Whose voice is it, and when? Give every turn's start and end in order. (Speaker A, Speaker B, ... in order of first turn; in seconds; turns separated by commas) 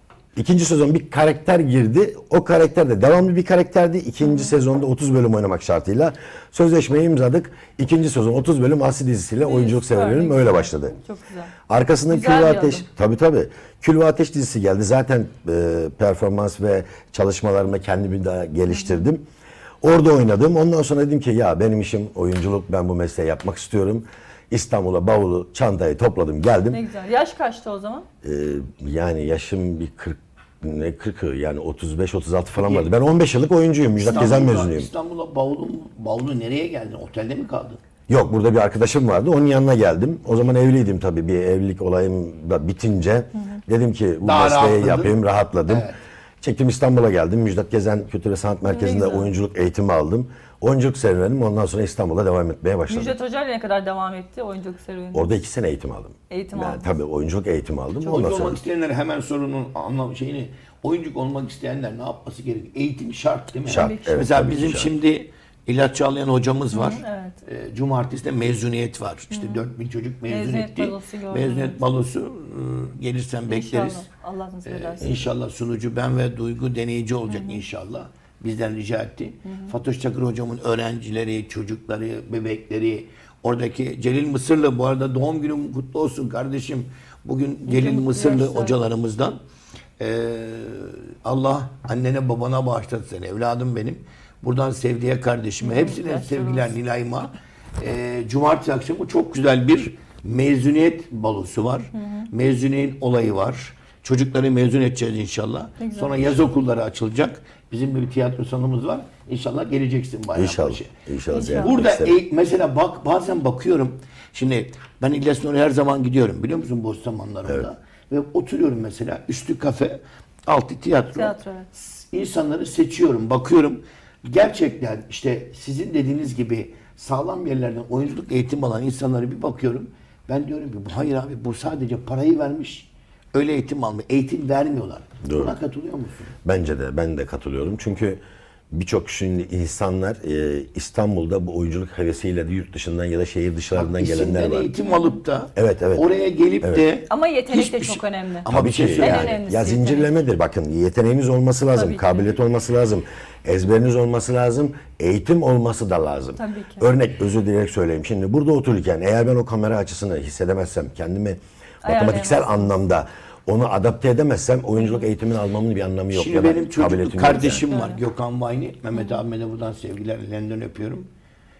Speaker A: 0.3-10.9, Speaker B: 4.2-4.5, Speaker B: 9.4-11.5, Speaker A: 11.7-19.2, Speaker B: 12.1-12.8, Speaker B: 18.7-19.1, Speaker A: 19.8-26.8, Speaker B: 26.7-28.1, Speaker A: 28.2-34.9, Speaker C: 32.6-32.9, Speaker C: 34.0-37.8, Speaker A: 38.1-45.9, Speaker C: 44.2-46.0, Speaker A: 46.4-53.1, Speaker B: 48.6-49.3, Speaker B: 52.9-55.3, Speaker A: 55.1-58.6, Speaker B: 56.3-56.9, Speaker B: 58.0-58.3, Speaker C: 58.0-74.0, Speaker A: 63.6-64.9, Speaker B: 63.7-64.2, Speaker B: 66.7-67.4, Speaker B: 69.3-69.6, Speaker B: 70.3-71.8, Speaker B: 73.5-75.3, Speaker C: 74.7-89.4, Speaker B: 77.3-77.6, Speaker B: 79.4-79.7, Speaker B: 87.7-88.8, Speaker C: 90.0-110.9, Speaker B: 95.6-96.7, Speaker B: 101.9-102.3, Speaker B: 105.8-106.2, Speaker A: 110.3-112.2, Speaker B: 111.3-111.8, Speaker C: 111.6-136.3, Speaker B: 121.1-121.7, Speaker A: 135.2-135.5, Speaker A: 136.4-144.7, Speaker C: 143.7-149.4, Speaker A: 145.6-146.1, Speaker B: 147.1-150.1, Speaker A: 148.5-167.6, Speaker B: 151.7-152.4, Speaker B: 156.4-156.9, Speaker B: 161.8-162.7, Speaker C: 166.1-171.1, Speaker B: 167.3-168.0, Speaker B: 168.9-169.2